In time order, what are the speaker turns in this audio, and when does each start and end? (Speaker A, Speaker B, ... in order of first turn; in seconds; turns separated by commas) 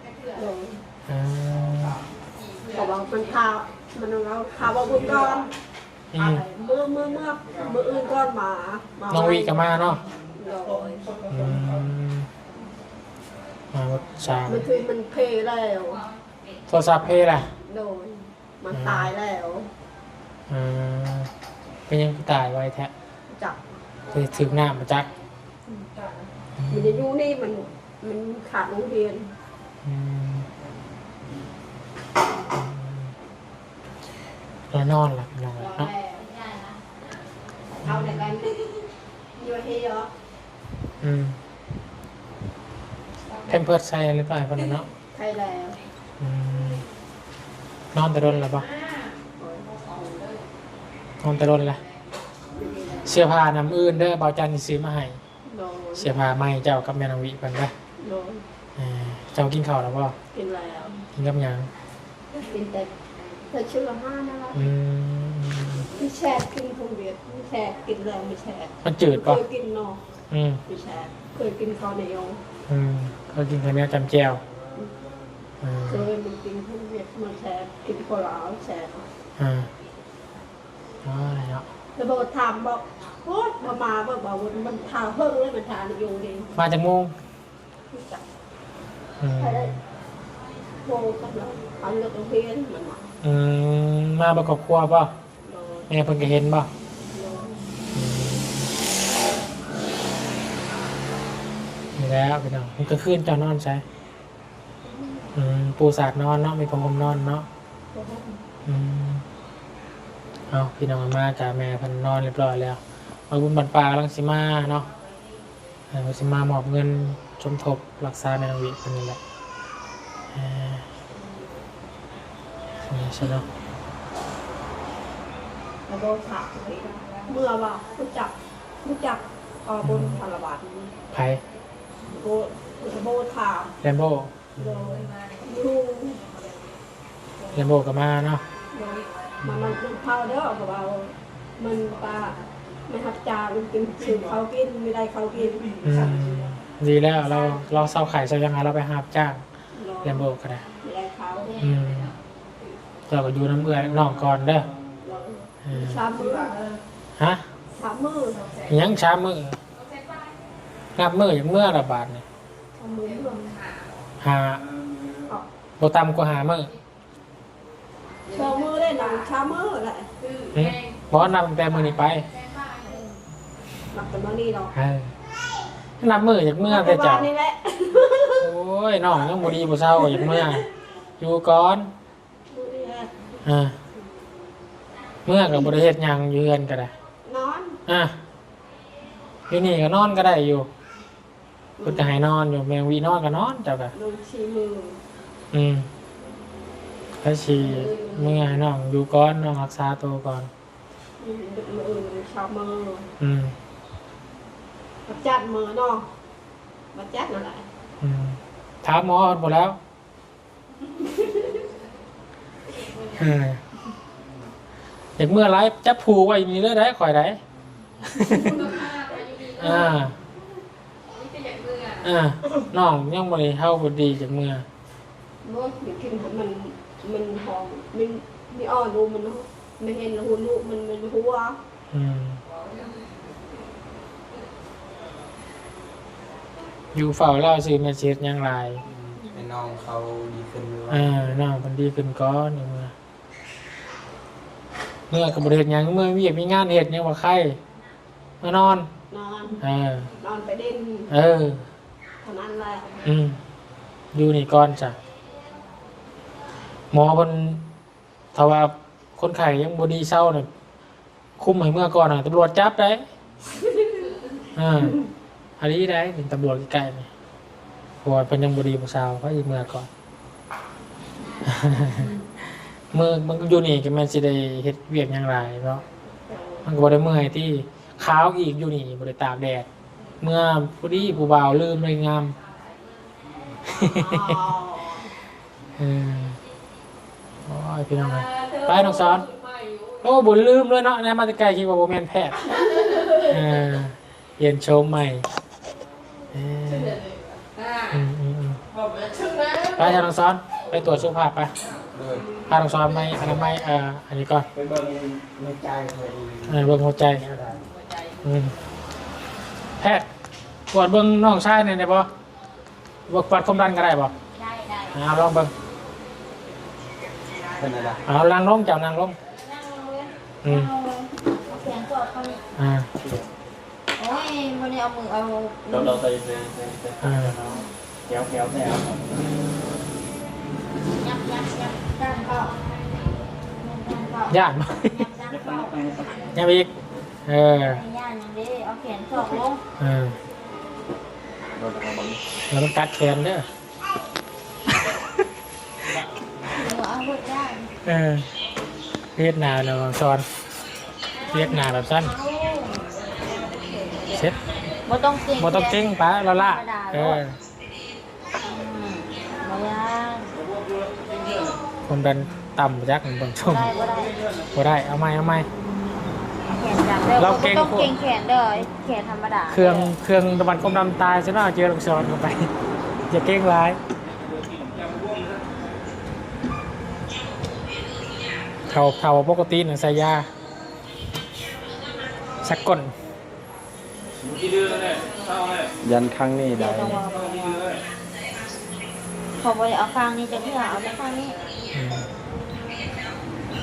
Speaker A: 0.3-0.8, Speaker B: 1.1-2.0, Speaker A: 2.7-5.5, Speaker B: 6.1-6.4, Speaker A: 6.2-9.6, Speaker B: 9.1-10.0, Speaker A: 10.4-11.2, Speaker B: 11.3-12.3, Speaker B: 13.7-14.7, Speaker A: 14.4-16.1, Speaker B: 16.7-17.5, Speaker A: 17.6-19.7, Speaker B: 18.7-19.1, Speaker B: 20.5-21.3, Speaker B: 21.9-22.9, Speaker A: 23.3-23.9, Speaker B: 24.1-25.1, Speaker A: 25.7-26.1, Speaker B: 26.6-27.0, Speaker A: 26.7-29.3, Speaker B: 29.8-30.5, Speaker B: 32.5-33.1, Speaker B: 34.7-35.9, Speaker A: 35.6-36.3, Speaker C: 36.2-36.8, Speaker A: 37.8-40.1, Speaker B: 37.8-38.3, Speaker B: 41.0-41.4, Speaker B: 43.5-44.9, Speaker A: 45.1-45.8, Speaker B: 46.2-46.9, Speaker B: 47.9-48.7, Speaker A: 49.4-50.2, Speaker B: 51.2-51.8, Speaker A: 52.5-53.2, Speaker B: 53.0-55.2, Speaker A: 55.5-56.1, Speaker B: 56.0-57.7, Speaker A: 58.0-58.4, Speaker B: 58.8-60.1, Speaker A: 60.3-61.0, Speaker B: 61.1-61.7, Speaker A: 62.4-62.9, Speaker A: 63.5-64.7, Speaker B: 64.5-65.9, Speaker A: 65.9-70.0, Speaker B: 68.8-69.4, Speaker B: 70.3-70.6, Speaker A: 70.7-72.4, Speaker B: 72.7-74.4, Speaker B: 75.6-76.1, Speaker A: 75.9-79.1, Speaker B: 79.4-79.7, Speaker B: 81.0-81.7, Speaker A: 82.0-86.5, Speaker B: 86.5-87.1, Speaker A: 87.9-88.2, Speaker B: 89.2-89.8, Speaker A: 89.4-89.7, Speaker A: 90.8-93.1, Speaker B: 93.2-95.1, Speaker A: 95.5-95.9, Speaker B: 95.9-96.7, Speaker A: 97.1-97.7, Speaker B: 97.9-98.7, Speaker B: 102.0-103.8, Speaker A: 104.9-105.2, Speaker B: 105.3-107.5, Speaker A: 107.9-108.4, Speaker B: 108.6-109.2, Speaker B: 110.5-114.9, Speaker B: 115.9-119.2, Speaker B: 120.3-120.8, Speaker B: 122.8-123.5, Speaker A: 125.9-130.9, Speaker B: 129.8-130.2, Speaker B: 131.1-131.4, Speaker A: 132.1-133.8, Speaker B: 133.8-135.1, Speaker A: 134.6-136.2, Speaker B: 137.5-138.4, Speaker A: 138.7-145.8, Speaker B: 139.4-139.8, Speaker B: 145.8-149.4, Speaker A: 149.7-150.3, Speaker B: 150.0-150.6, Speaker A: 150.8-151.6, Speaker B: 151.6-152.2, Speaker B: 153.1-154.7, Speaker A: 155.0-156.6, Speaker B: 155.6-156.0, Speaker B: 157.2-157.4, Speaker A: 157.7-158.5, Speaker B: 158.7-159.6, Speaker B: 160.9-162.2, Speaker A: 162.8-163.6, Speaker B: 164.2-164.6, Speaker B: 165.8-166.7, Speaker A: 168.3-170.1, Speaker B: 170.5-172.3, Speaker C: 172.4-173.1, Speaker A: 173.9-174.7, Speaker B: 174.7-175.1, Speaker B: 176.0-177.3, Speaker A: 176.6-178.5, Speaker B: 178.4-180.7, Speaker B: 181.2-181.9, Speaker A: 182.5-183.1, Speaker B: 183.4-183.8, Speaker B: 185.2-186.9, Speaker A: 187.2-187.8, Speaker B: 187.9-188.2, Speaker B: 189.5-190.7, Speaker A: 191.8-192.1, Speaker B: 191.8-193.9, Speaker A: 193.9-195.0, Speaker B: 195.5-195.9, Speaker B: 197.2-200.5, Speaker A: 197.7-198.4, Speaker A: 201.2-203.1, Speaker B: 203.2-203.5, Speaker A: 205.1-206.1, Speaker A: 206.9-207.6, Speaker B: 208.0-209.8, Speaker A: 211.0-211.5, Speaker B: 213.1-213.6, Speaker B: 215.2-217.4, Speaker B: 218.0-218.7, Speaker A: 218.5-219.4, Speaker C: 218.8-219.2, Speaker B: 219.6-220.2, Speaker B: 222.0-224.7, Speaker A: 225.4-231.6, Speaker B: 231.9-232.4, Speaker B: 236.9-238.8, Speaker D: 238.9-241.3, Speaker B: 240.9-242.9, Speaker B: 245.1-247.6, Speaker B: 248.4-248.9, Speaker A: 249.1-249.6, Speaker B: 249.6-250.1, Speaker A: 250.2-251.1, Speaker B: 251.1-251.6, Speaker A: 252.2-253.0, Speaker B: 253.0-253.4, Speaker B: 254.1-255.0, Speaker B: 256.9-257.6, Speaker B: 258.3-260.5, Speaker B: 261.4-263.1, Speaker B: 264.5-265.0, Speaker B: 265.6-267.1, Speaker B: 268.0-269.9, Speaker B: 271.4-272.3, Speaker B: 272.9-275.8, Speaker A: 276.2-276.7, Speaker B: 276.6-279.7, Speaker B: 280.2-282.4, Speaker B: 283.7-284.4, Speaker A: 283.7-285.1, Speaker B: 285.8-286.4, Speaker B: 287.5-289.3, Speaker B: 290.0-292.4, Speaker B: 293.1-295.3, Speaker B: 296.3-297.1, Speaker B: 297.9-298.6, Speaker B: 299.7-301.5, Speaker D: 301.9-302.4, Speaker B: 302.5-304.5, Speaker D: 304.5-307.6, Speaker B: 306.5-307.2, Speaker B: 308.2-308.5, Speaker B: 309.8-310.1, Speaker B: 310.7-312.1, Speaker B: 313.1-314.1, Speaker C: 314.3-314.9, Speaker B: 314.9-315.5, Speaker D: 317.5-318.0, Speaker B: 318.1-319.2, Speaker C: 319.4-322.4, Speaker B: 320.4-320.7, Speaker B: 322.6-323.1, Speaker C: 324.0-326.5, Speaker D: 325.9-327.0, Speaker B: 327.0-327.4, Speaker C: 327.4-327.7, Speaker D: 328.1-328.8, Speaker C: 331.0-332.6, Speaker C: 333.6-336.3, Speaker B: 334.3-335.1, Speaker B: 336.3-336.7, Speaker B: 337.2-337.8, Speaker C: 337.6-339.6, Speaker B: 339.8-340.2, Speaker D: 341.6-342.2, Speaker B: 342.5-343.5, Speaker C: 346.5-347.7, Speaker B: 347.8-348.3, Speaker B: 349.1-350.2, Speaker C: 351.2-353.0, Speaker B: 351.3-352.1, Speaker B: 354.1-354.4, Speaker C: 354.9-355.8, Speaker B: 355.4-357.4, Speaker C: 356.3-357.2, Speaker C: 358.4-360.3, Speaker B: 361.9-363.7, Speaker C: 363.4-364.2, Speaker B: 364.5-365.5, Speaker C: 366.5-369.9, Speaker B: 367.2-367.9, Speaker B: 369.5-372.5, Speaker B: 373.1-373.8, Speaker B: 378.7-380.3, Speaker B: 382.4-382.9, Speaker D: 385.8-387.0, Speaker C: 386.6-387.7, Speaker C: 389.4-391.4, Speaker B: 391.7-392.1